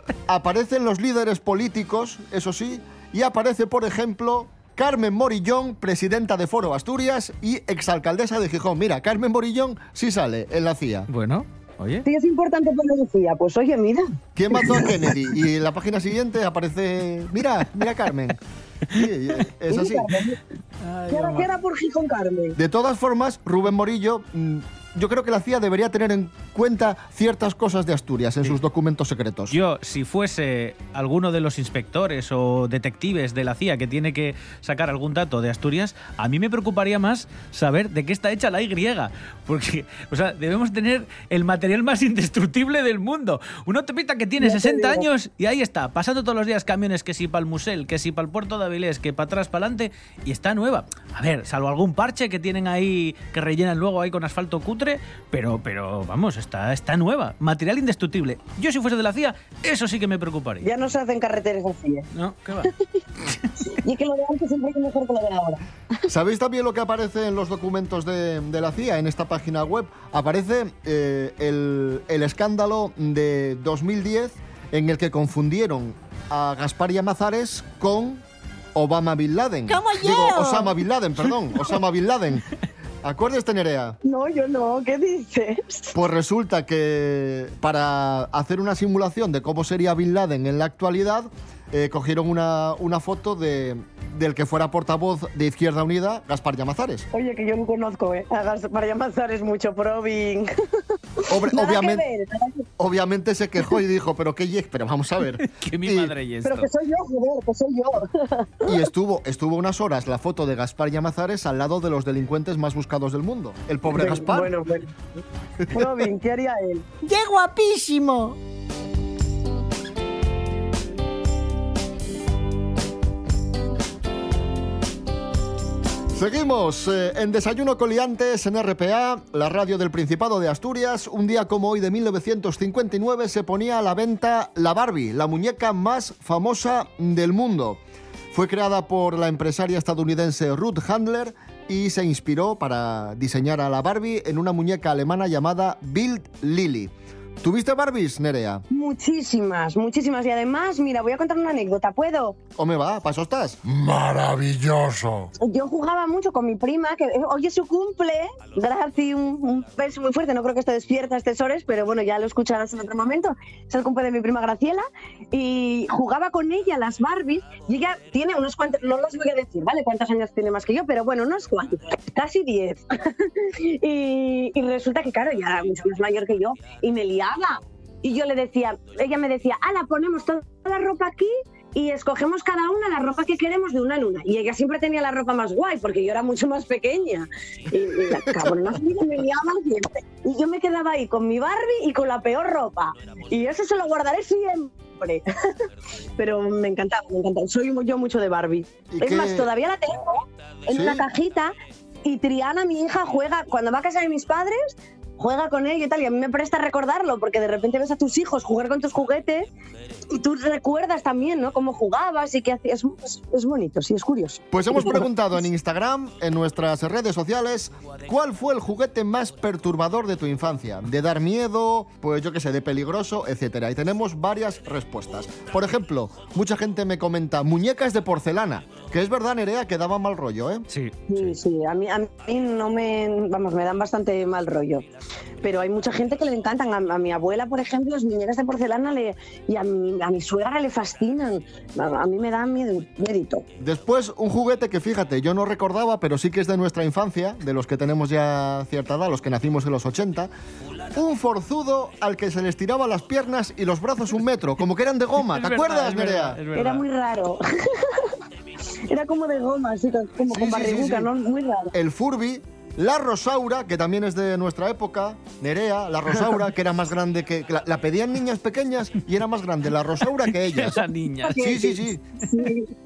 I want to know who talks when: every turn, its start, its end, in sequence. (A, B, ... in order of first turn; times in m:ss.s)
0:00.3-0:11.1 A
0:11.1-0:12.0 B
0:12.0-0:14.9 C
0:14.4-0:18.4 A
0:18.9-0:20.1 A
0:19.7-0:20.4 C
0:20.8-0:21.5 B
0:21.1-0:22.6 C
0:22.6-0:29.6 A
0:29.5-1:00.7 B
0:44.4-0:45.0 C
1:00.6-1:02.1 C
1:02.1-1:02.7 B
1:03.8-1:05.6 C
1:06.1-1:18.2 A
1:18.7-1:22.4 A
1:19.7-1:20.7 D
1:23.0-1:24.0 A
1:24.0-1:25.9 C
1:25.9-1:37.1 A
1:37.1-1:40.5 C
1:41.2-1:42.7 C
1:41.3-1:42.0 A
1:42.8-1:46.1 A
1:45.5-1:46.7 B
1:46.4-1:48.7 C
1:48.6-1:54.5 A
1:53.9-1:54.9 C
1:55.7-1:56.0 A
1:55.7-1:56.8 C
1:57.0-1:58.3 D
1:57.7-1:58.3 A
2:06.1-2:17.8 A
2:18.3-2:28.6 A
2:28.7-2:32.4 C
2:32.6-2:35.3 A
2:35.4-3:15.2 C
3:16.2-3:29.5 C
3:18.9-3:19.5 A
3:20.7-3:21.0 A
3:30.1-3:35.1 C
3:34.5-3:50.6 A
3:50.7-3:51.3 B
3:51.1-3:54.8 C
3:55.4-4:03.4 C
4:03.6-4:10.3 A
4:10.9-4:16.4 A
4:15.2-4:16.8 B
4:16.5-4:18.1 C
4:18.8-4:21.7 C
4:20.3-4:21.1 A
4:21.7-4:30.8 A
4:30.3-4:31.4 B
4:31.2-4:32.7 C
4:31.4-4:32.0 A